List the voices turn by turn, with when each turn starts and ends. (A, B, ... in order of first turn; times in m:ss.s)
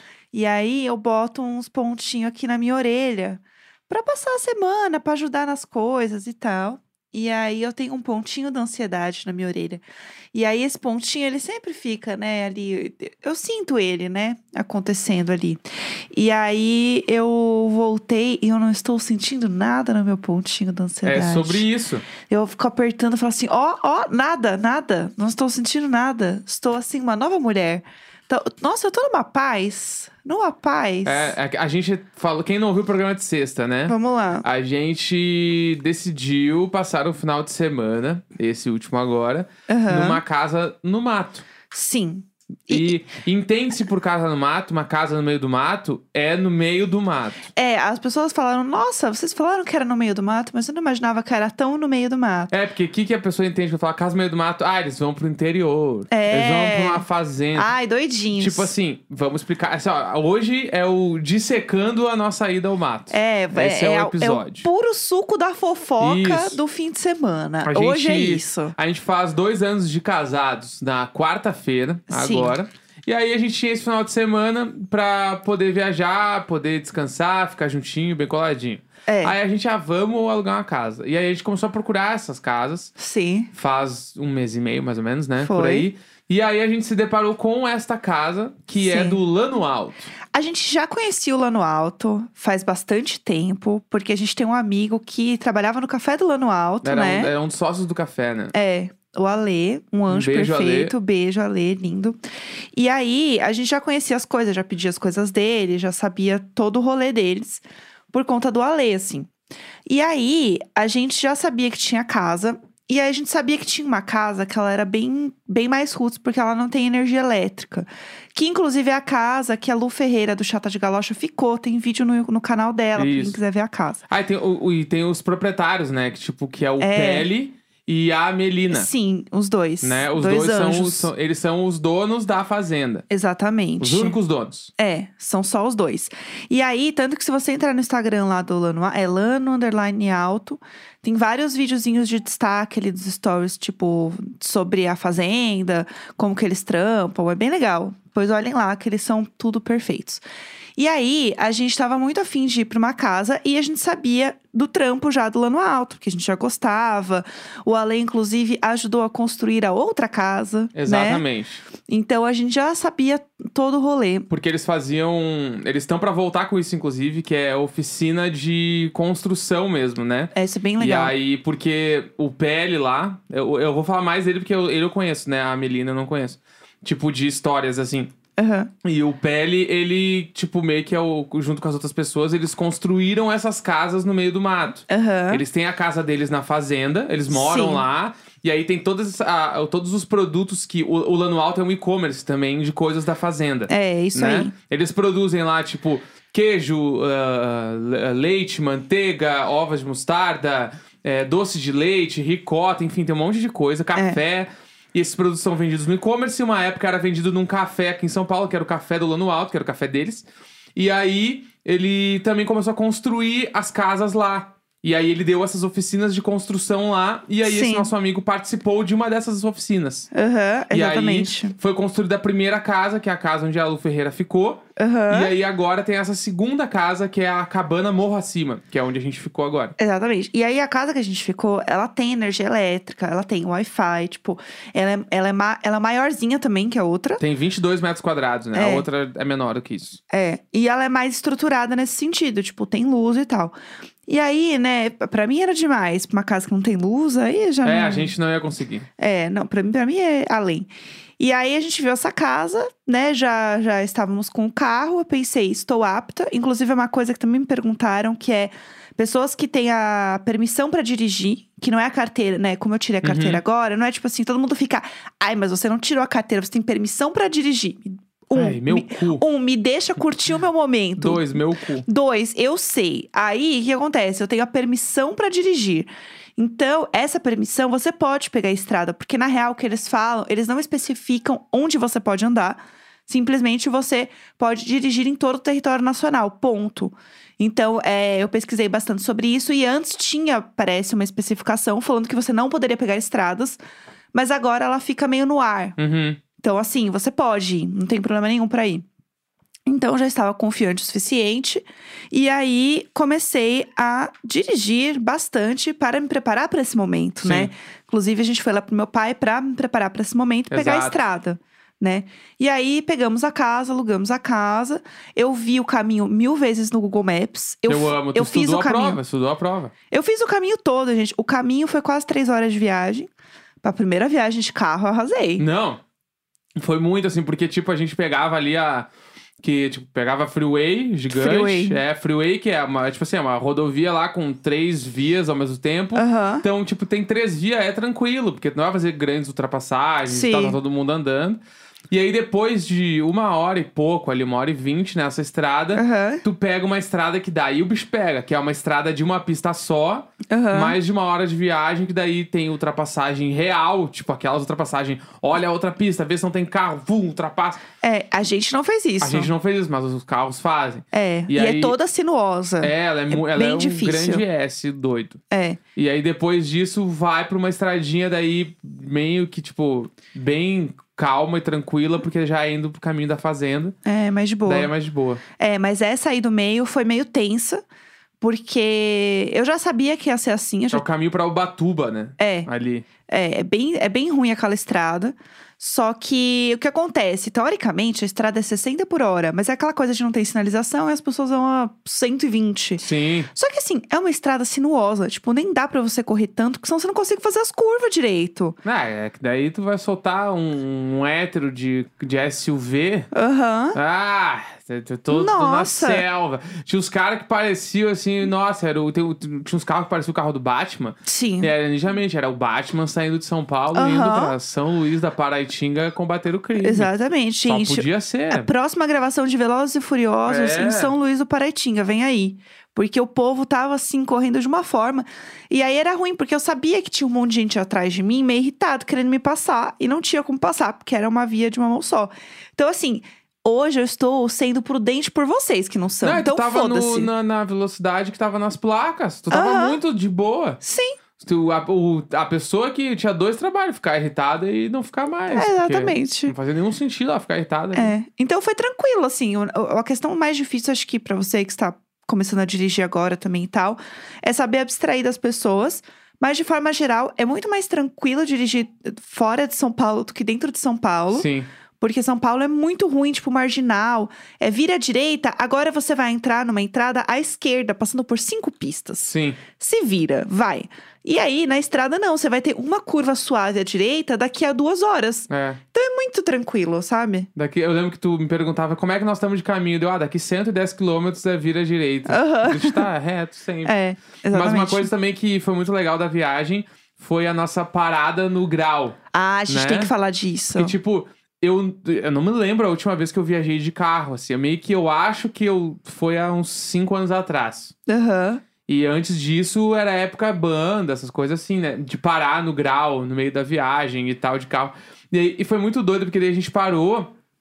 0:00.3-0:09.8 A
0:10.3-0:15.6 A
0:16.1-0:21.6 A
0:21.0-0:22.0 B
0:22.2-0:31.4 A
0:31.0-0:41.4 B
0:33.9-0:34.5 A
0:39.7-0:40.2 A
0:41.7-0:43.0 A
0:42.7-0:47.4 B
0:47.6-0:52.5 A
0:52.5-0:57.7 B
0:56.1-0:58.7 A
0:58.4-1:04.7 B
1:03.1-1:08.8 A
1:06.0-1:06.6 B
1:07.6-1:22.9 B
1:12.1-1:12.5 A
1:19.1-1:19.4 A
1:23.0-1:23.5 A
1:23.5-1:30.1 B
1:25.4-1:25.9 A
1:28.8-1:29.2 A
1:30.3-1:37.3 A
1:36.8-1:38.5 B
1:38.5-1:42.2 A
1:40.1-1:41.0 B
1:42.8-1:49.3 A
1:49.9-2:04.0 A
2:03.0-2:03.4 B
2:04.1-2:08.9 B
2:06.8-2:07.3 A
2:08.7-2:11.1 A
2:09.8-2:13.0 B
2:13.1-2:14.2 A
2:13.8-2:14.7 B
2:14.8-2:30.2 A
2:30.8-2:41.2 A
2:40.8-2:41.6 B
2:41.9-2:44.3 A
2:44.3-2:58.1 B
2:50.3-2:51.1 A
2:58.4-2:58.7 A
2:58.8-3:30.2 B
3:04.9-3:05.4 A
3:07.3-3:07.8 A
3:13.7-3:14.5 A
3:30.8-3:40.1 B
3:37.4-3:37.9 A
3:40.1-3:41.6 A
3:40.7-3:49.8 B
3:44.8-3:45.4 A
3:49.8-3:57.2 A
3:57.2-4:00.0 B
3:58.5-3:58.9 A
4:00.1-4:03.5 A
4:04.1-4:08.1 A
4:07.6-4:08.9 B
4:09.0-4:53.6 A
4:23.0-4:23.4 B
4:28.4-4:29.2 B
4:31.0-4:31.9 B
4:54.1-4:55.8 A
4:55.8-4:56.2 B
4:56.4-4:58.8 A
4:59.7-5:19.0 A
5:07.2-5:07.5 B
5:10.5-5:11.0 B
5:17.7-5:19.7 B
5:19.9-5:23.1 A
5:23.6-5:25.5 A
5:25.4-5:25.8 B
5:26.6-5:28.9 B
5:29.4-5:41.4 B
5:31.1-5:31.8 A
5:36.0-5:36.4 A
5:40.1-5:40.6 A
5:41.9-5:57.6 B
5:45.7-5:46.2 A
5:50.3-5:50.8 A
5:57.8-5:59.3 A
5:59.0-6:01.8 B
6:00.9-6:04.2 A
6:02.6-6:05.2 B
6:05.3-6:05.6 A
6:05.8-6:13.8 B
6:13.8-6:14.7 A
6:14.4-6:15.2 B
6:15.4-6:17.6 A
6:18.2-6:20.8 A
6:20.7-6:22.9 B
6:22.2-6:22.5 A
6:23.1-6:38.6 A
6:32.8-6:33.3 B
6:38.6-6:43.1 B
6:43.1-6:43.8 A
6:43.7-6:56.9 B
6:45.1-6:46.0 A
6:51.1-6:51.5 A
6:53.7-6:54.3 A
6:56.6-7:17.1 A
6:57.4-6:58.5 B
7:00.2-7:00.9 B
7:16.0-7:20.6 B
7:19.3-7:19.8 A
7:20.6-7:21.0 A
7:21.2-7:27.9 B
7:25.3-7:26.4 A
7:27.7-7:41.3 A
7:41.1-7:41.5 B
7:41.8-7:57.3 A
7:49.1-7:49.4 B
7:55.3-7:55.6 B
7:57.4-8:03.8 B
8:02.1-8:02.9 A
8:03.6-8:04.9 A
8:04.3-8:09.0 B
8:09.1-8:10.8 A
8:09.5-8:09.9 B
8:10.6-8:17.7 B
8:17.9-8:18.4 A
8:18.7-8:27.1 B